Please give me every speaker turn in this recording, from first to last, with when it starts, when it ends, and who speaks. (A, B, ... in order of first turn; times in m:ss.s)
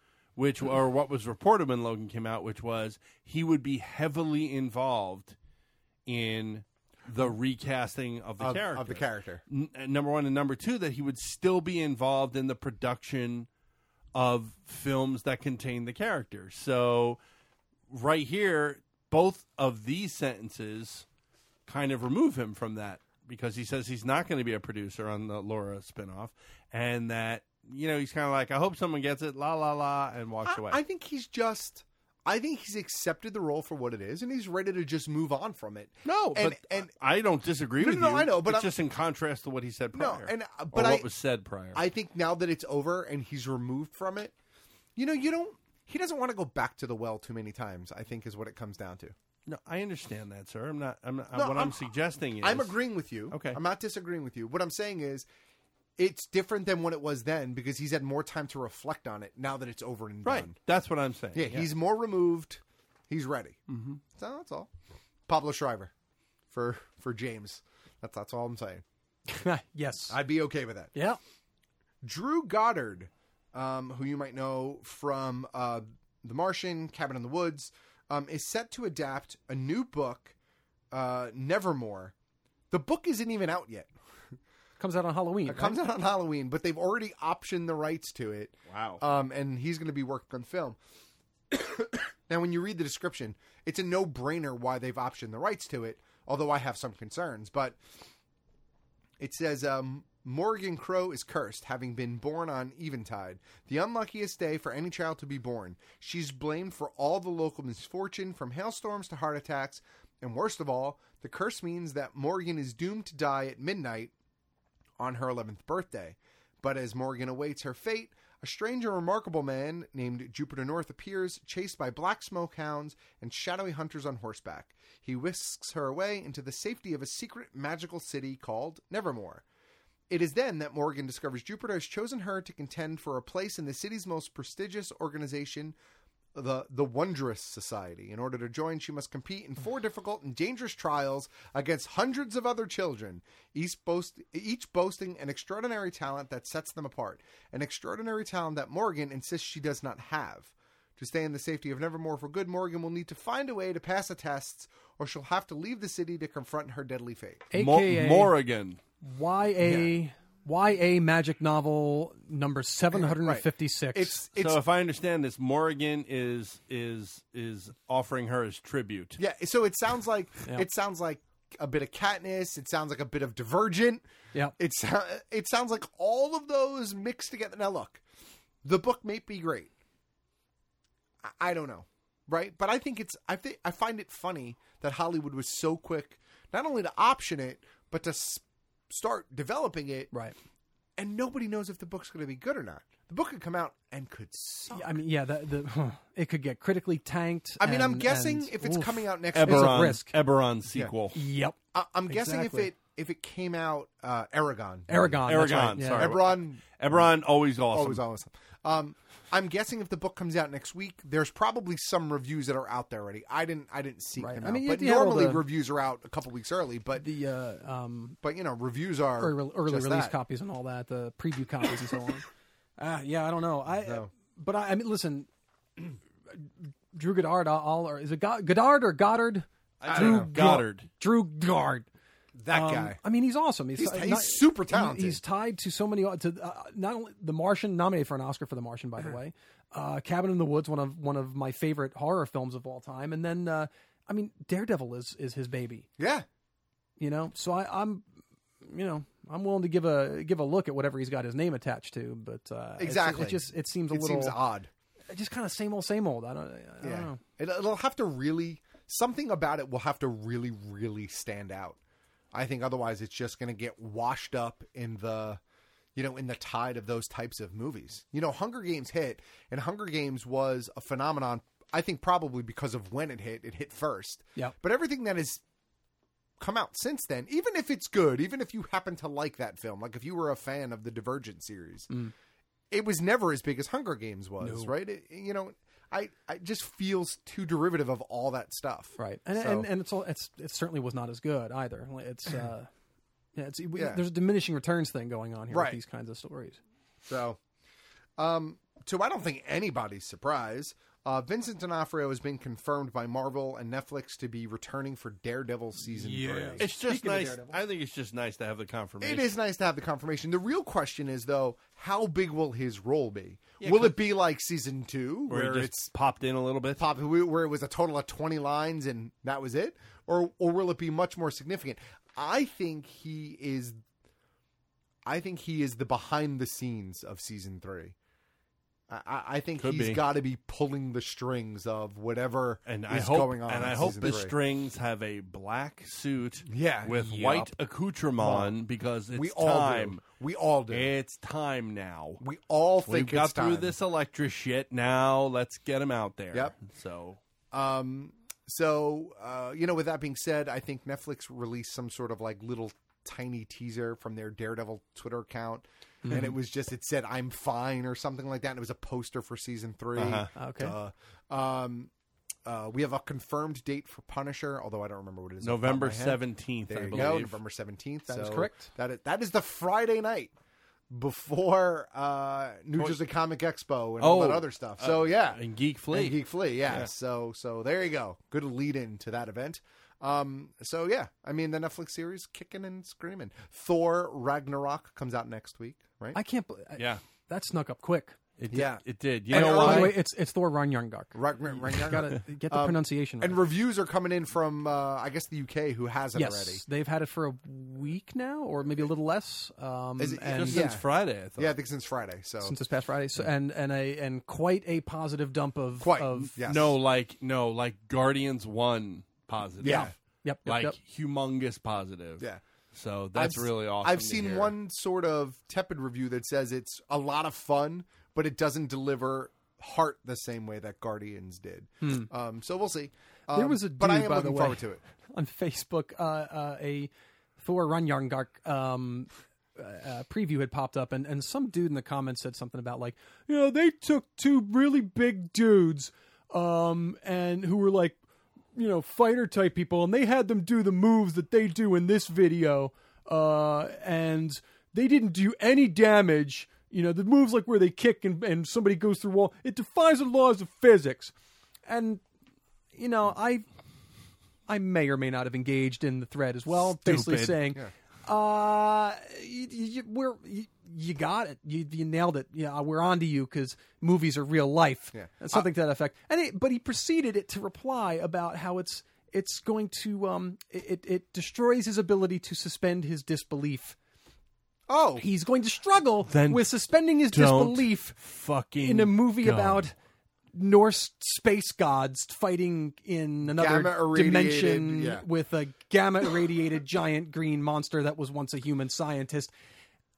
0:00.4-0:05.4 A
0:06.0-0:13.5 A
0:08.4-0:09.4 B
0:14.1-0:17.2 A
0:17.9-0:21.0 A
0:21.7-0:30.8 A
0:30.4-0:36.9 B
0:36.0-0:41.8 A
0:37.8-0:38.7 B
0:39.9-0:41.1 B
0:41.7-0:44.3 B
0:45.0-0:49.1 B
0:49.4-0:52.8 A
0:51.3-0:51.8 B
0:52.4-0:55.3 B
0:53.3-0:53.6 A
0:56.0-1:00.6 B
1:00.2-1:01.7 A
1:01.3-1:04.7 B
1:03.7-1:04.0 A
1:05.3-1:05.9 B
1:06.5-1:08.8 B
1:09.3-1:10.2 C
1:10.1-1:10.9 B
1:10.9-1:11.2 C
1:12.0-1:20.3 B
1:20.9-1:22.1 B
1:22.7-1:23.9 B
1:24.8-1:25.8 C
1:25.4-1:30.8 B
1:28.7-1:29.0 A
1:31.5-1:37.8 B
1:39.2-1:54.1 B
1:55.0-2:09.4 B
2:10.1-2:15.8 B
2:16.3-2:37.5 B
2:37.5-2:38.3 C
2:37.5-2:38.8 A
2:39.0-2:44.2 C
2:39.6-2:39.9 B
2:42.9-2:44.6 B
2:44.4-2:49.2 A
2:49.2-2:54.0 B
2:54.6-2:58.0 B
2:58.6-2:59.7 B
3:01.2-3:10.1 B
3:11.0-3:15.0 B
3:14.7-3:20.1 C
3:17.6-3:19.9 B
3:19.3-3:21.2 A
3:21.1-3:21.6 C
3:21.7-3:27.1 B
3:22.1-3:22.7 C
3:24.9-3:26.1 C
3:25.2-3:28.0 A
3:27.7-3:37.0 B
3:34.2-3:35.4 C
3:37.0-3:38.2 C
3:38.2-3:40.2 B
3:39.2-3:42.2 C
3:42.8-3:45.3 C
3:43.7-3:44.1 B
3:46.3-3:51.9 C
3:49.8-3:50.9 A
3:49.8-3:50.6 B
3:52.3-3:53.0 B
3:52.5-4:05.9 C
3:53.7-3:55.2 B
4:06.0-4:06.2 B
4:07.0-4:08.0 C
4:08.6-4:14.4 C
4:12.8-4:14.7 B
4:15.1-4:17.2 C
4:16.8-4:21.8 B
4:22.3-4:25.4 B
4:25.9-4:35.4 B
4:36.4-4:41.9 B
4:42.7-4:49.7 B
4:44.4-4:44.7 C
4:49.0-4:52.7 C
4:53.4-4:56.6 C
4:53.7-4:54.0 B
4:55.5-4:55.8 B
4:57.0-4:57.4 B
4:58.2-5:06.9 B
5:05.8-5:07.6 C
5:06.6-5:09.3 A
5:09.0-5:15.9 B
5:13.6-5:14.0 A
5:15.3-5:16.8 A
5:16.8-5:23.8 B
5:25.0-5:27.9 B
5:28.9-5:34.4 B
5:29.6-5:30.0 A
5:32.6-5:40.0 A
5:36.5-5:37.5 B
5:38.2-5:38.5 B
5:39.1-5:40.9 B
5:40.7-5:42.2 A
5:42.2-5:43.7 B
5:42.8-5:47.2 A
5:47.5-6:01.9 B
5:56.0-5:56.3 C
6:00.0-6:00.3 A
6:00.4-6:00.8 C
6:02.4-6:10.3 B
6:05.4-6:07.4 A
6:08.1-6:08.7 C
6:10.9-6:26.2 B
6:14.0-6:16.9 A
6:26.1-6:28.2 C
6:28.4-6:30.0 A
6:28.5-6:30.0 B
6:29.3-6:33.4 C
6:31.1-6:36.6 B
6:36.1-6:40.7 C
6:40.0-6:42.6 B
6:40.3-6:41.6 A
6:42.4-6:46.3 C
6:45.8-6:46.8 B
6:46.4-6:54.5 A
6:49.6-6:49.9 B
6:49.6-6:50.8 C
6:53.1-7:04.8 B
7:01.8-7:02.1 C
7:03.3-7:18.0 C
7:18.5-7:31.1 C
7:31.6-7:32.0 C
7:32.7-7:33.4 C
7:34.5-7:53.8 C
7:36.8-7:37.4 A
7:44.9-7:45.5 B
7:54.7-7:55.0 B
7:55.0-7:57.9 C
7:56.1-7:56.5 A
7:57.1-7:59.7 A
7:58.6-7:59.7 C
8:00.3-8:09.3 C
8:03.3-8:05.0 B